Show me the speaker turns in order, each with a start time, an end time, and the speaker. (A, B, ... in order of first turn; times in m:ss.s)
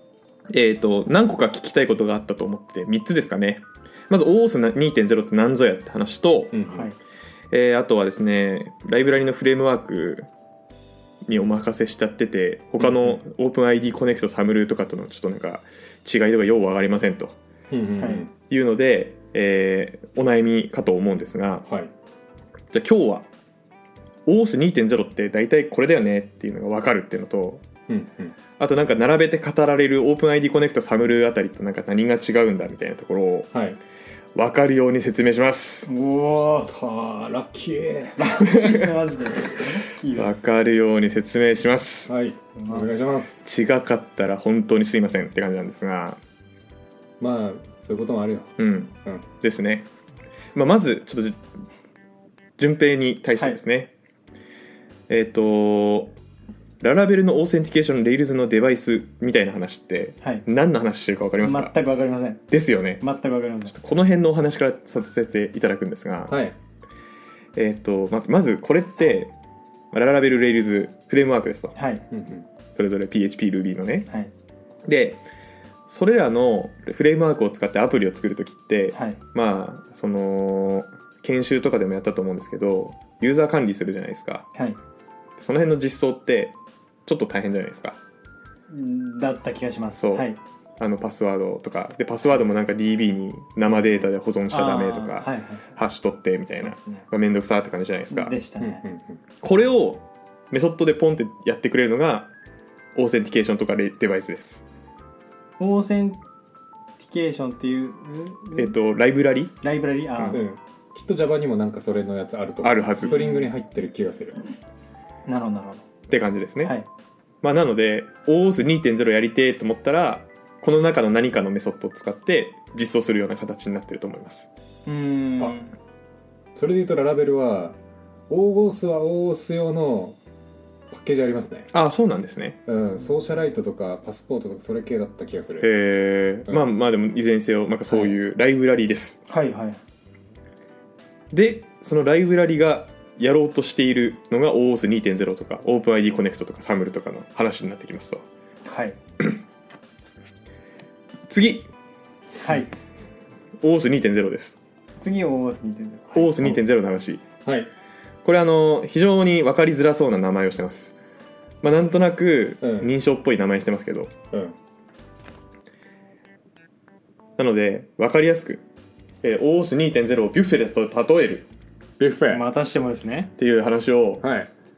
0:00.5-0:06.6 A
0:06.5-0:06.9 B
0:06.7-0:07.0 C
0:07.5-0:10.3 A
0:11.2-0:17.4 A
0:12.8-0:13.2 B
0:17.7-0:18.3 B
0:18.5-0:21.6 A
0:22.7-0:23.3 A
0:24.3-0:27.6 A
0:27.9-0:28.4 B
0:28.6-0:33.5 A
0:33.5-0:33.8 B
0:34.4-0:35.9 A
0:35.9-0:36.7 C
0:36.6-0:38.2 B
0:38.2-0:40.3 C
0:38.4-0:39.0 A
0:40.1-0:42.1 A
0:42.1-0:43.4 B
0:42.6-0:42.9 C
0:43.4-0:46.2 A
0:47.2-0:49.2 B
0:48.6-0:49.9 A
0:50.5-0:51.4 A
0:52.6-0:53.9 A
0:55.1-0:56.2 A
0:56.8-1:01.7 A
1:01.4-1:02.5 C
1:02.5-1:03.0 A
1:03.0-1:03.8 C
1:03.7-1:06.4 A
1:06.3-1:06.6 B
1:07.6-1:09.3 A
1:09.9-1:11.8 A
1:11.8-1:12.1 C
1:12.1-1:12.4 B
1:12.7-1:14.1 A
1:14.8-1:15.2 A
1:15.9-1:24.5 A
1:19.0-1:19.2 C
1:25.4-1:28.0 A
1:28.7-1:30.4 C
1:30.0-1:38.4 A
1:34.5-1:35.7 C
1:36.5-1:37.1 C
1:38.1-1:38.8 C
1:38.6-1:39.2 B
1:39.4-1:42.3 A
1:43.0-1:44.6 A
1:45.6-1:46.2 C
1:47.0-1:48.7 C
1:48.6-1:49.6 A
1:49.6-1:50.4 C
1:50.3-1:54.4 B
1:52.6-1:53.2 A
1:53.0-1:53.4 C
1:55.3-1:55.9 C
1:56.1-1:56.7 A
1:57.4-2:04.5 A
2:04.9-2:05.7 C
2:06.6-2:07.8 B
2:08.3-2:10.2 B
2:10.9-2:11.7 B
2:11.7-2:12.6 A
2:12.7-2:15.7 B
2:15.6-2:19.2 A
2:17.9-2:18.2 B
2:19.3-2:19.8 C
2:21.3-2:28.2 A
2:28.6-2:29.0 C
2:31.3-2:31.7 A
2:32.4-2:32.7 C
2:33.6-2:34.6 A
2:35.0-2:36.6 C
2:36.1-2:37.2 A
2:37.4-2:37.7 B
2:38.2-2:41.0 A
2:41.6-2:44.1 A
2:42.6-2:42.9 B
2:47.4-2:48.6 A
2:49.2-2:51.5 A
2:52.0-2:52.4 B
2:52.3-2:53.3 C
2:53.4-2:54.2 A
2:54.2-2:54.5 B